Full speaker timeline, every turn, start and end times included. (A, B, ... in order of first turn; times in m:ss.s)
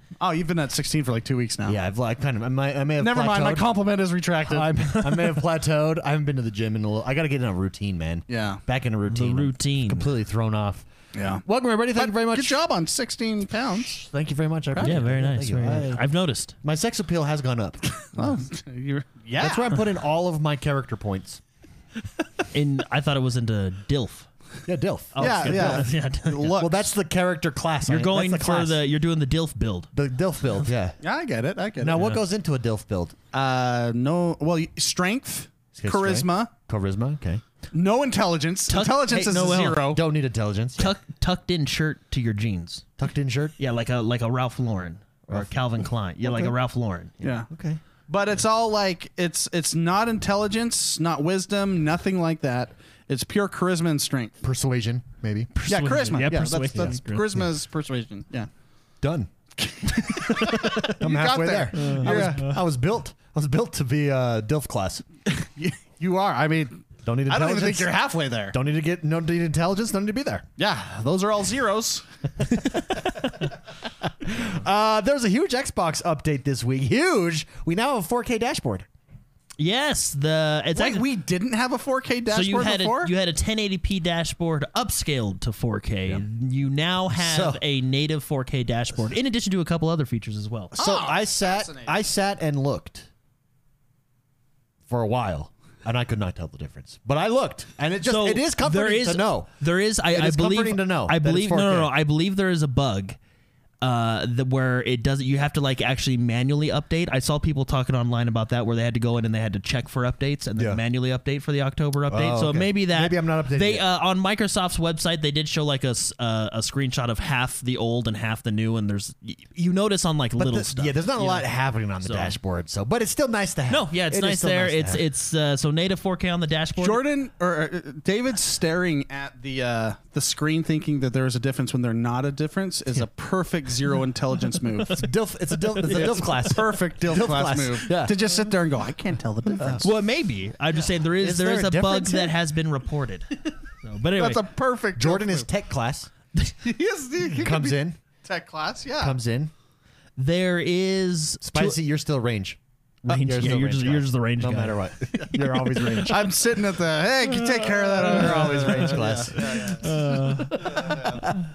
0:00.2-0:01.8 A
0:01.6-0:03.7 B
0:03.0-0:04.7 A
0:04.5-0:10.8 B
0:08.3-0:08.6 A
0:09.1-0:10.1 C
0:11.1-0:13.9 A
0:11.4-0:12.6 B
0:13.8-0:16.0 B
0:14.7-0:15.0 A
0:14.8-0:16.5 C
0:16.6-0:18.1 B
0:18.1-0:19.9 A
0:19.4-0:21.4 B
0:22.5-0:24.3 C
0:24.7-0:25.9 B
0:25.2-0:26.6 C
0:25.2-0:26.9 A
0:26.6-0:28.8 B
0:27.9-0:29.9 C
0:29.9-0:31.0 B
0:31.0-0:32.1 A
0:31.8-0:33.2 B
0:33.3-0:36.5 A
0:35.8-0:37.4 B
0:37.7-0:40.0 A
0:38.7-0:39.9 C
0:39.9-0:40.9 B
0:40.8-0:42.9 C
0:43.0-0:43.6 B
0:43.6-0:47.3 C
0:46.2-0:46.5 B
0:47.2-0:47.5 A
0:47.5-0:47.8 B
0:48.1-0:54.4 A
0:54.4-0:57.5 B
0:55.6-0:57.2 C
0:55.7-0:58.5 A
0:59.0-0:59.3 B
0:59.6-1:02.5 A
0:59.8-1:05.1 B
1:01.8-1:02.6 C
1:05.4-1:08.6 A
1:07.0-1:07.9 B
1:08.5-1:10.5 B
1:10.6-1:12.0 A
1:12.6-1:13.4 B
1:14.2-1:18.9 B
1:19.6-1:21.1 C
1:20.7-1:23.1 A
1:22.3-1:30.8 C
1:27.1-1:27.6 B
1:30.8-1:31.9 A
1:30.8-1:33.1 B
1:34.9-1:39.5 B
1:38.0-1:43.2 C
1:40.1-1:41.9 B
1:43.8-2:01.5 C
1:52.1-1:53.8 B
2:00.4-2:05.0 B
2:02.0-2:02.4 C
2:03.7-2:07.0 C
2:06.8-2:15.1 A
2:14.9-2:18.2 B
2:15.7-2:16.4 C
2:15.8-2:19.9 A
2:19.6-2:19.8 B
2:19.8-2:24.4 C
2:21.2-2:22.3 B
2:24.2-2:25.5 A
2:25.0-2:26.1 B
2:26.5-2:29.2 A
2:27.4-2:28.0 B
2:29.0-2:29.5 B
2:30.2-2:31.8 C
2:31.4-2:36.3 B
2:33.1-2:34.9 C
2:35.8-2:36.1 C
2:35.8-2:41.2 A
2:38.0-2:39.9 B
2:39.4-2:41.4 C